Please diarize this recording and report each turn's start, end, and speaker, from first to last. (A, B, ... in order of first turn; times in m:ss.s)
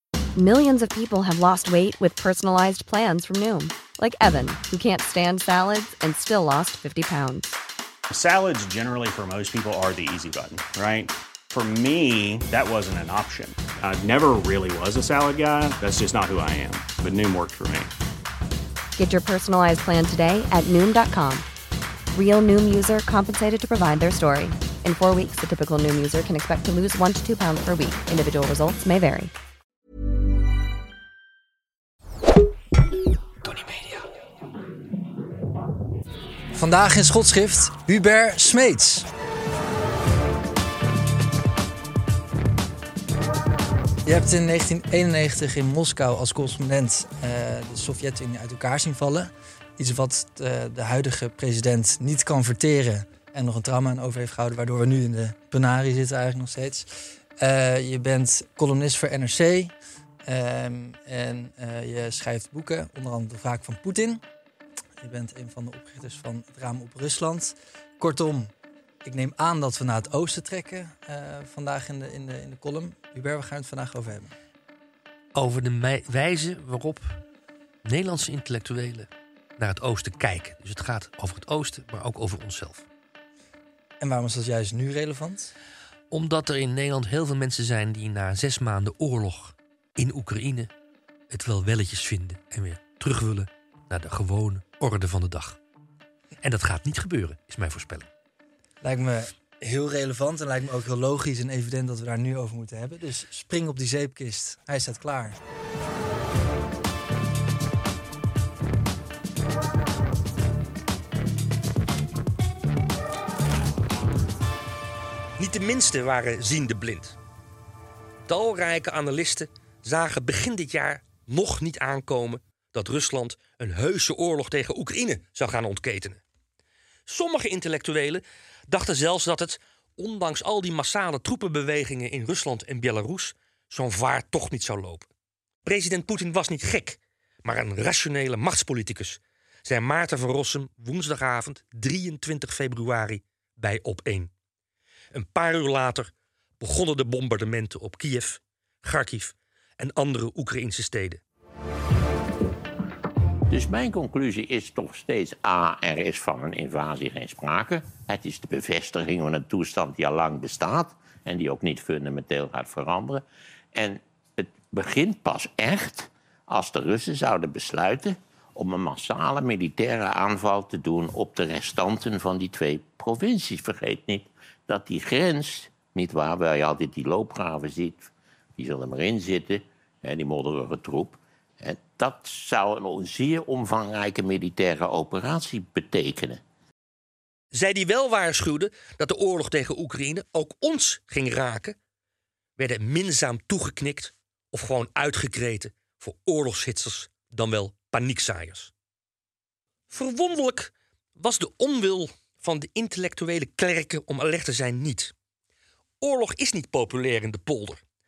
0:00.4-0:07.5 A
0:08.1-0:17.9 B
0:19.0-0:21.5 A
0:22.1-0:29.3 A
0:36.5-0:39.1 C
0:44.0-0:59.7 C
1:00.2-1:04.2 C
1:05.0-1:08.5 C
1:09.0-1:14.3 C
1:15.3-1:17.2 D
1:17.8-1:22.8 D
1:24.0-1:25.5 C
1:26.1-1:30.7 D
1:31.3-1:35.6 D
1:36.4-1:38.1 D
1:38.8-1:45.4 C
1:55.4-1:57.2 D
1:58.3-2:06.2 D
2:07.1-2:15.1 D
2:15.6-2:24.3 D
2:25.1-2:31.2 D
2:33.5-2:43.2 E
2:43.7-3:06.4 E
3:07.5-3:11.8 D
3:12.6-3:18.7 D
3:19.9-3:25.1 D
3:26.0-3:27.8 D